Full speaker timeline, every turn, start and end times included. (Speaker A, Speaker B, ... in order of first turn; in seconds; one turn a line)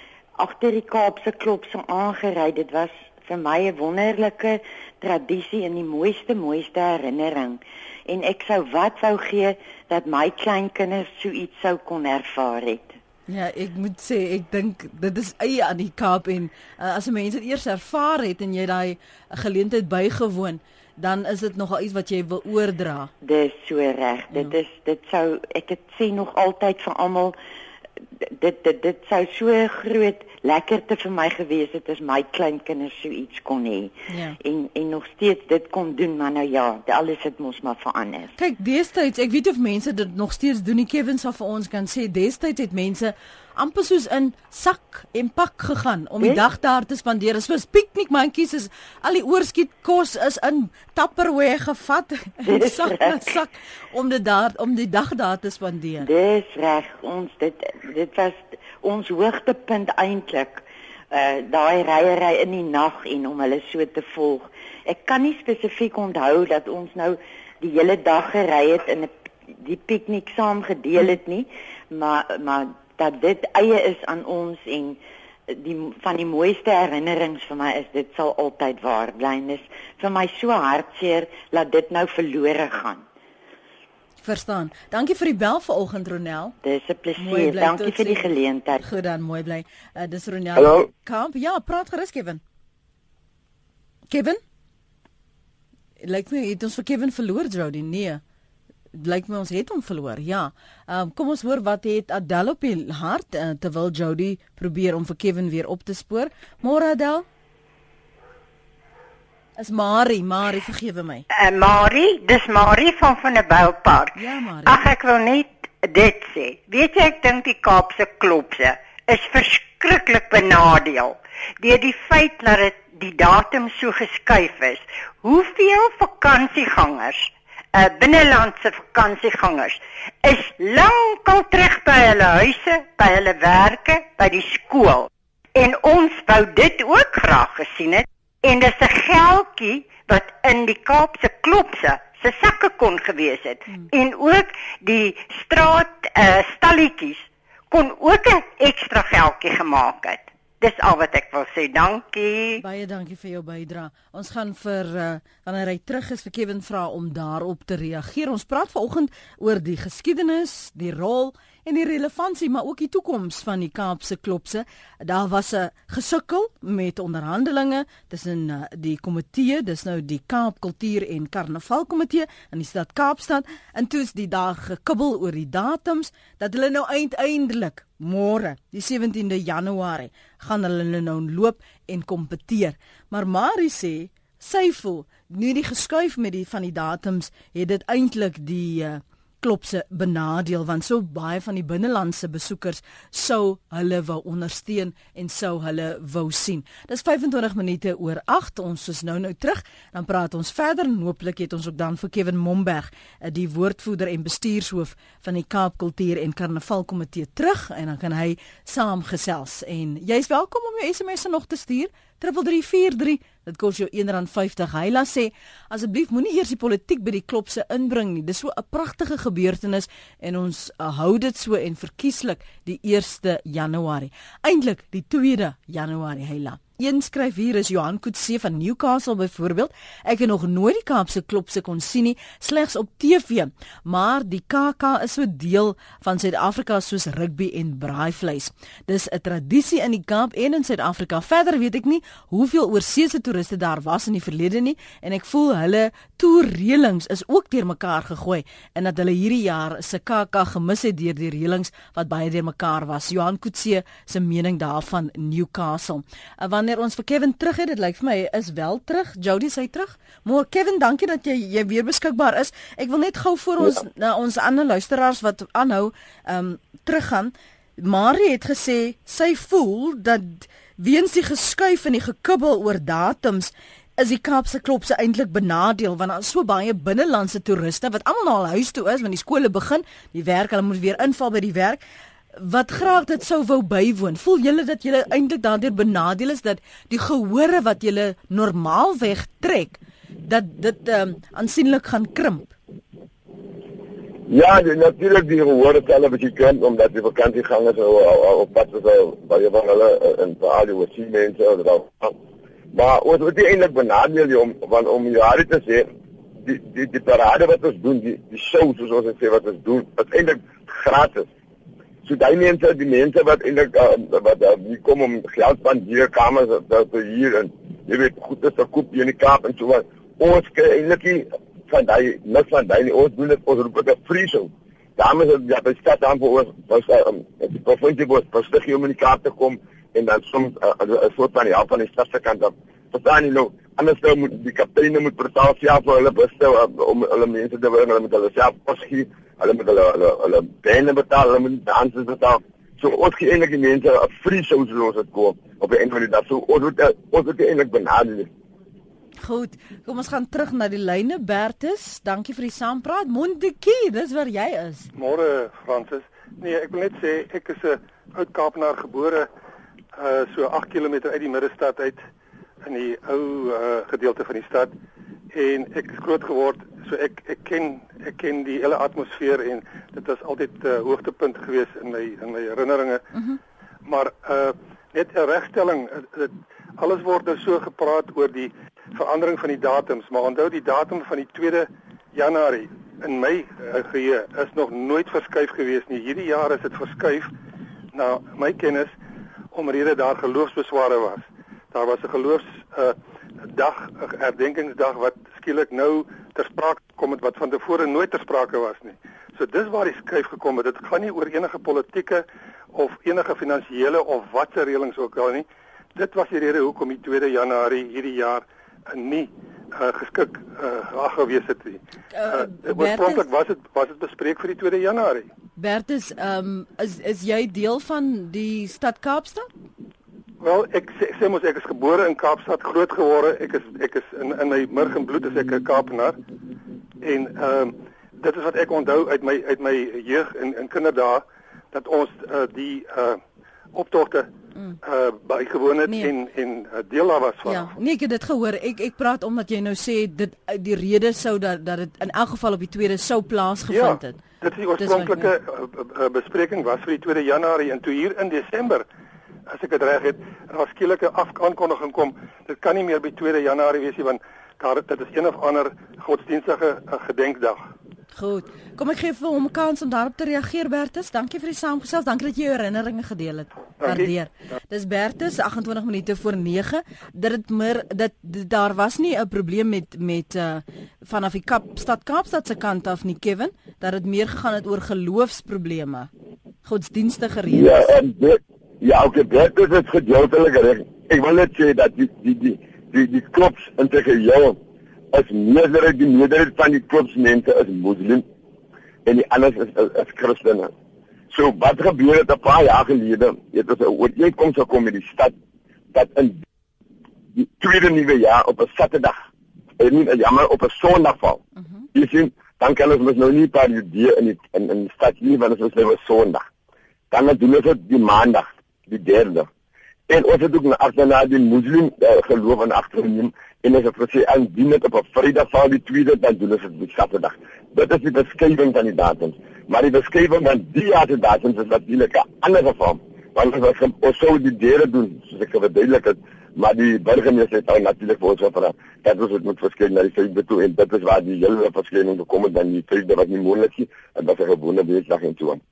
Speaker A: 0.4-13.0
Speaker B: 13.3-23.1
Speaker A: 23.2-27.4
Speaker A: 28.2-38.3
Speaker B: 34.1-34.4
Speaker B: 38.4-56.1
Speaker A: 52.5-53.3
Speaker A: 56.0-83.0
Speaker B: 84.2-86.5
Speaker A: 86.6-88.8
Speaker B: 87.2-92.4
Speaker C: 90.5-90.9
Speaker B: 94.1-94.4
Speaker B: 96.0-98.2
Speaker B: 98.9-107.2
Speaker B: 109.6-111.2
Speaker D: 111.3-152.6
Speaker B: 114.2-114.8
Speaker B: 152.6-281.8
Speaker B: 282.4-292.5
Speaker C: 294.3-302.2
Speaker C: 302.7-305.9
Speaker C: 306.4-311.3
Speaker C: 312.1-348.3
Speaker B: 349.2-354.9
Speaker E: 355.0-359.3
Speaker E: 360.0-362.1
Speaker E: 362.6-364.7
Speaker E: 365.3-373.1
Speaker E: 373.9-387.3
Speaker E: 387.9-388.9
Speaker E: 389.5-415.3
Speaker B: 412.1-413.3
Speaker B: 415.6-419.5
Speaker E: 420.4-426.2
Speaker E: 427.0-433.2
Speaker E: 433.7-434.3
Speaker E: 434.8-437.7
Speaker B: 435.9-436.1
Speaker B: 437.4-444.2
Speaker E: 443.7-448.9
Speaker B: 444.8-445.3
Speaker E: 449.5-457.7
Speaker B: 458.1-476.1
Speaker E: 463.8-464.1
Speaker B: 476.6-477.9
Speaker C: 477.5-484.6
Speaker C: 485.1-488.2
Speaker C: 489.1-490.7
Speaker C: 491.3-495.3
Speaker C: 495.9-496.4
Speaker C: 497.4-499.2
Speaker C: 499.8-501.4
Speaker C: 501.9-506.5
Speaker C: 507.1-509.5
Speaker C: 510.1-535.6